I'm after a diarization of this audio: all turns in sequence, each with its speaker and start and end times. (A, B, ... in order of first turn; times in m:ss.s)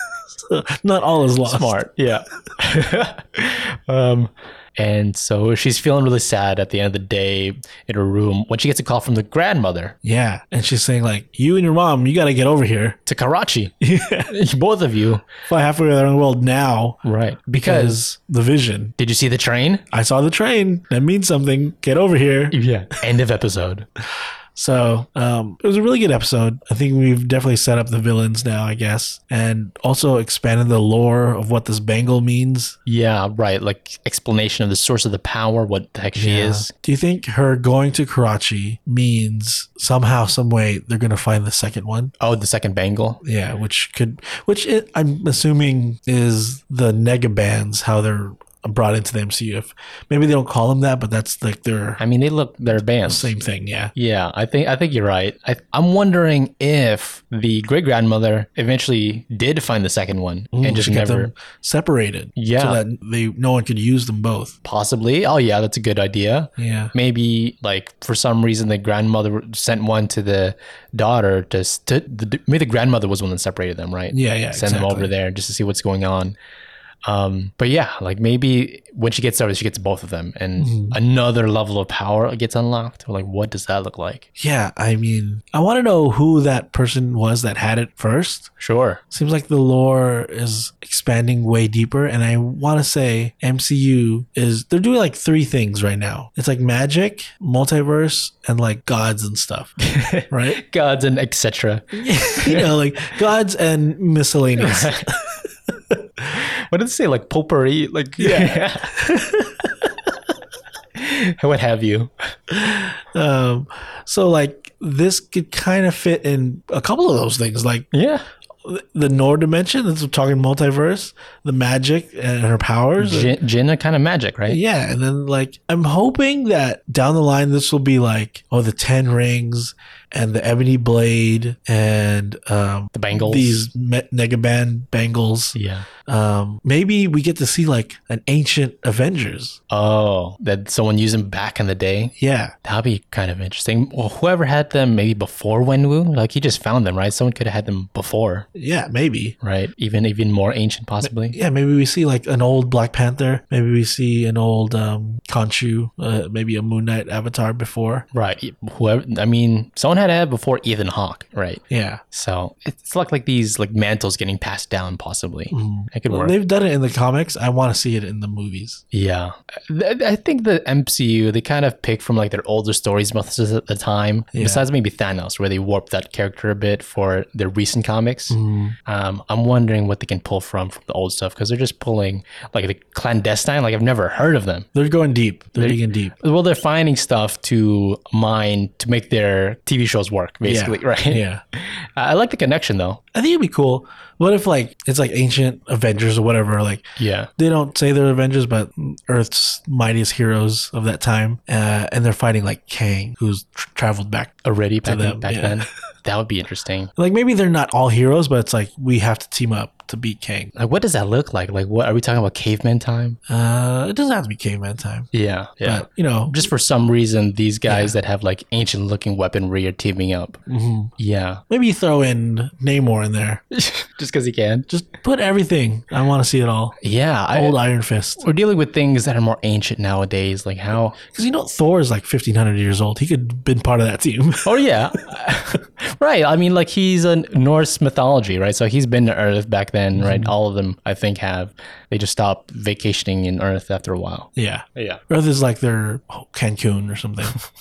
0:00.3-0:01.8 A
0:01.4-0:09.9 B
0:10.0-0:13.0 A
0:13.0-0:13.7 B
0:13.8-0:14.3 A
0:14.3-0:15.2 B
0:15.4-0:18.9 A
0:17.0-0:18.0 B
0:19.0-0:19.8 B
0:19.9-0:22.6 A
0:22.5-0:23.9 B
0:24.6-0:32.8 A
0:32.8-0:36.7 B
0:36.2-0:42.1 A
0:42.2-0:43.2 B
0:43.2-0:52.0 A
0:52.0-0:53.3 B
0:53.0-0:53.9 A
0:53.9-1:01.3 B
1:00.5-1:04.5 A
1:02.4-1:02.8 B
1:04.6-1:16.3 B
1:06.6-1:06.9 A
1:14.1-1:15.1 A
1:17.0-1:24.2 B
1:20.6-1:21.0 A
1:24.4-1:28.5 A
1:28.6-1:29.0 B
1:29.1-1:39.8 A
1:39.8-1:42.7 B
1:40.3-1:40.6 A
1:41.9-1:46.2 A
1:44.6-1:45.1 B
1:46.3-1:48.9 B
1:48.2-1:50.1 A
1:51.0-1:52.3 B
1:52.5-1:57.9 A
1:57.9-1:58.2 B
1:58.6-2:03.3 A
2:03.0-2:04.6 B
2:04.5-2:19.6 A
2:12.9-2:13.7 B
2:15.5-2:15.8 B
2:19.7-2:28.5 B
2:22.2-2:22.5 A
2:28.5-2:29.3 A
2:29.4-2:31.4 B
2:31.0-2:38.0 A
2:38.1-2:46.3 B
2:41.7-2:42.0 A
2:45.5-2:48.8 A
2:48.9-3:04.7 B
2:54.3-2:54.6 A
2:58.3-2:58.8 A
3:04.7-3:06.1 A
3:05.6-3:13.0 B
3:10.4-3:11.4 A
3:13.1-3:25.6 A
3:17.0-3:17.3 B
3:24.4-3:26.9 B
3:27.0-3:30.5 A
3:30.6-3:33.2 B
3:33.3-3:35.1 A
3:35.1-3:40.4 B
3:35.6-3:36.5 A
3:37.7-3:38.0 A
3:40.5-3:40.9 A
3:41.0-3:41.4 B
3:41.5-3:43.4 A
3:43.5-3:44.7 B
3:44.7-3:46.8 A
3:46.8-3:47.6 B
3:47.3-3:48.2 A
3:48.2-3:51.0 B
3:51.1-3:54.6 A
3:54.4-4:05.0 B
4:00.0-4:00.3 A
4:04.4-4:07.4 A